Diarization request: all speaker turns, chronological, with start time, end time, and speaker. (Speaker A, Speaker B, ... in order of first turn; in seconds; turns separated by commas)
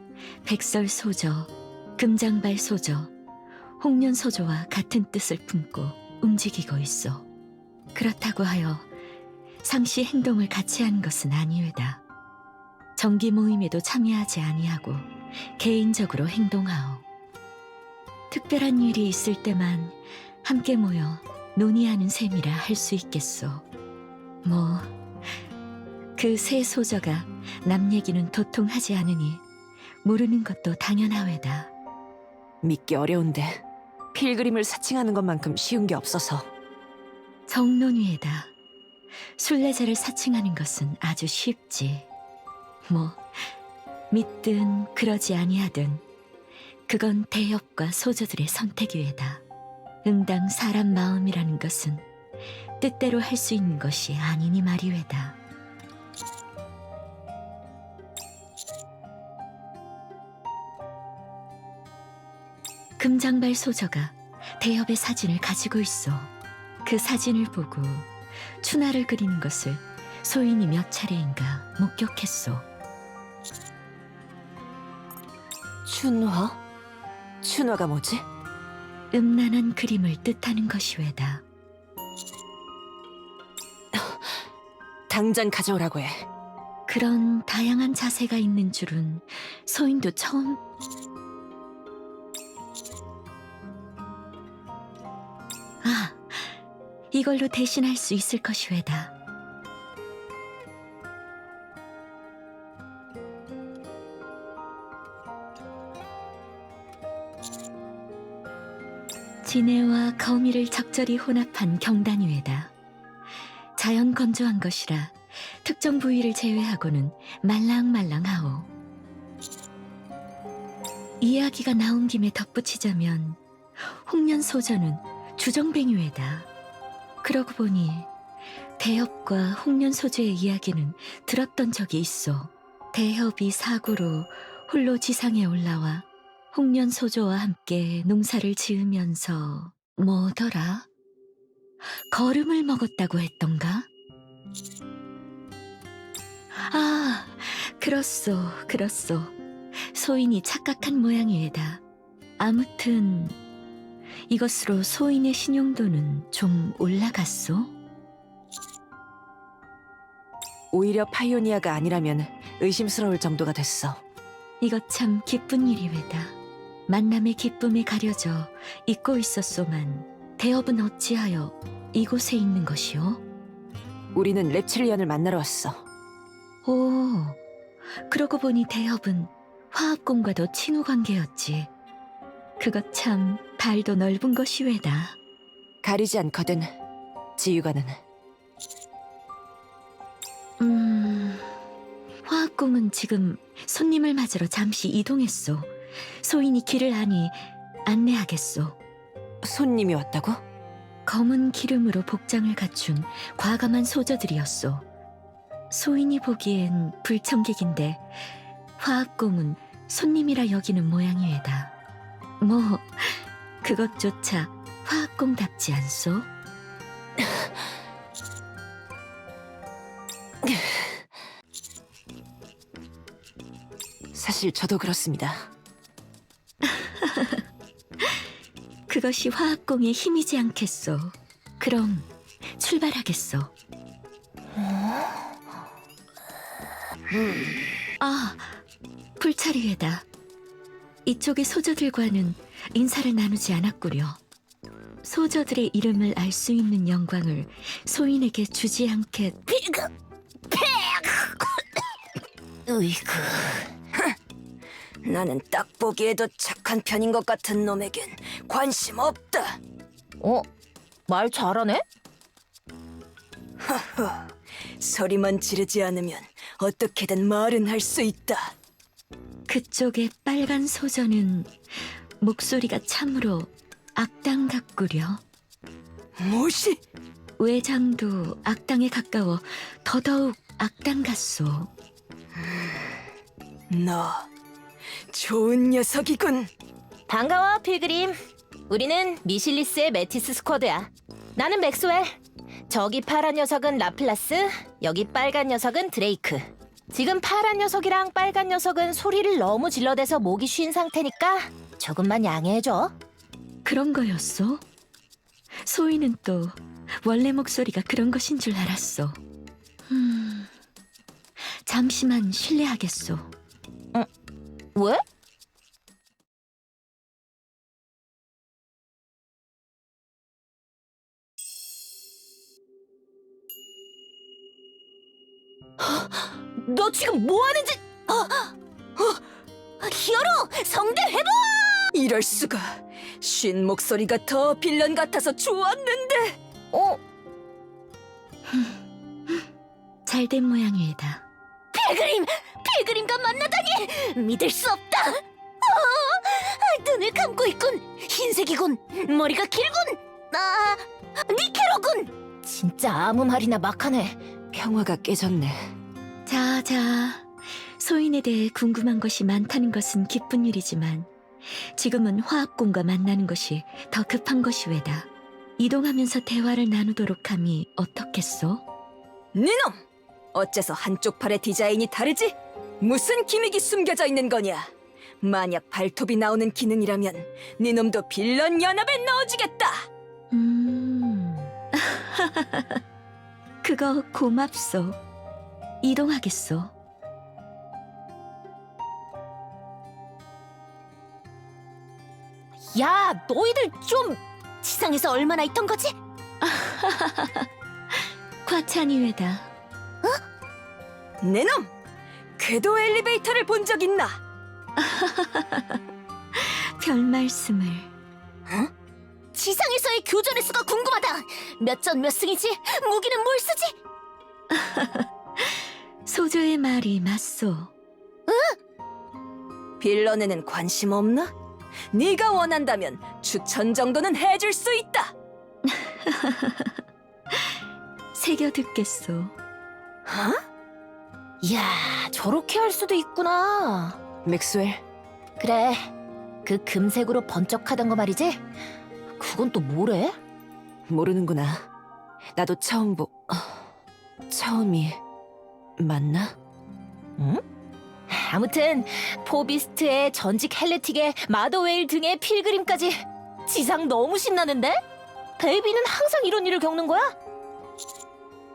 Speaker A: 0.4-3.1, Speaker A: 3.8-7.3, Speaker A: 7.9-8.9, Speaker A: 9.6-12.0, Speaker A: 13.0-17.0, Speaker A: 18.3-23.6, Speaker A: 24.4-24.9, Speaker A: 26.2-29.4, Speaker A: 30.0-31.7, Speaker B: 32.6-33.6, Speaker B: 34.1-36.5, Speaker A: 37.5-38.5, Speaker A: 39.4-42.1, Speaker A: 42.9-43.5, Speaker A: 44.1-46.0, Speaker A: 46.9-49.4, Speaker A: 50.0-52.1, Speaker A: 52.8-55.4, Speaker A: 63.0-66.3, Speaker A: 66.8-72.7, Speaker B: 75.9-76.6, Speaker B: 77.4-78.2, Speaker A: 79.1-81.5, Speaker B: 83.9-84.3, Speaker B: 85.1-86.3, Speaker A: 86.9-90.6, Speaker A: 95.8-96.5, Speaker A: 97.1-99.1, Speaker A: 109.4-112.7, Speaker A: 113.8-118.7, Speaker A: 121.2-126.5, Speaker A: 127.2-128.1, Speaker A: 128.8-140.9, Speaker A: 142.1-143.9, Speaker A: 146.5-151.8, Speaker A: 152.4-153.4, Speaker A: 154.3-157.7, Speaker B: 160.7-164.0, Speaker A: 164.6-166.4, Speaker A: 166.9-173.2, Speaker B: 174.1-175.8, Speaker A: 176.6-177.4, Speaker A: 178.1-181.7, Speaker A: 182.6-185.2, Speaker B: 185.8-186.8, Speaker B: 187.4-188.0, Speaker A: 190.6-191.5, Speaker A: 192.2-198.8, Speaker B: 199.4-200.4, Speaker A: 201.1-204.9, Speaker A: 205.7-208.2, Speaker A: 208.8-211.7, Speaker A: 212.4-216.3, Speaker B: 224.1-225.5, Speaker A: 226.7-227.4, Speaker A: 228.9-233.5, Speaker A: 238.0-238.6, Speaker A: 239.2-240.1, Speaker A: 241.1-244.2, Speaker A: 245.0-249.5, Speaker C: 249.5-249.9, Speaker C: 250.5-251.6, Speaker C: 252.7-253.7, Speaker D: 255.0-259.6, Speaker C: 260.2-260.5, Speaker C: 261.1-261.8, Speaker D: 263.6-264.3, Speaker D: 264.8-268.5, Speaker A: 269.5-271.5, Speaker A: 272.2-275.2, Speaker D: 276.2-276.8, Speaker A: 277.4-281.7, Speaker D: 283.7-284.3, Speaker D: 285.1-286.5, Speaker C: 287.1-288.2, Speaker C: 288.7-292.2, Speaker C: 292.7-302.9, Speaker A: 303.6-304.6, Speaker A: 305.6-309.2, Speaker A: 309.9-310.5, Speaker A: 311.5-313.3, Speaker C: 314.8-315.0, Speaker C: 325.8-329.2, Speaker C: 329.8-331.9, Speaker D: 331.9-336.4, Speaker C: 336.7-337.0, Speaker A: 338.5-338.8, Speaker A: 340.1-341.2, Speaker C: 341.7-354.2, Speaker B: 354.5-355.7, Speaker A: 356.3-368.6, Speaker D: 369.4-369.8, Speaker D: 370.3-379.9, Speaker A: 380.3-382.8, Speaker A: 383.6-385.0, Speaker A: 385.8-386.8, Speaker C: 392.7-396.0, Speaker A: 396.4-397.5, Speaker A: 398.0-399.5, Speaker D: 401.2-401.7, Speaker D: 402.4-404.2, Speaker A: 404.8-405.8, Speaker A: 406.4-407.9, Speaker C: 409.3-413.8, Speaker A: 414.5-417.7, Speaker C: 418.3-418.6, Speaker D: 419.8-421.3, Speaker D: 421.9-425.1, Speaker A: 425.7-426.8, Speaker A: 428.1-429.4, Speaker D: 430.1-430.4, Speaker C: 431.4-434.0, Speaker B: 434.2-434.8, Speaker C: 435.4-435.9, Speaker C: 436.4-438.4, Speaker C: 439.2-440.2, Speaker B: 440.9-441.7, Speaker B: 442.4-443.7, Speaker B: 444.3-445.0, Speaker B: 445.8-446.4, Speaker C: 447.2-447.4, Speaker C: 448.1-454.8, Speaker C: 455.4-457.1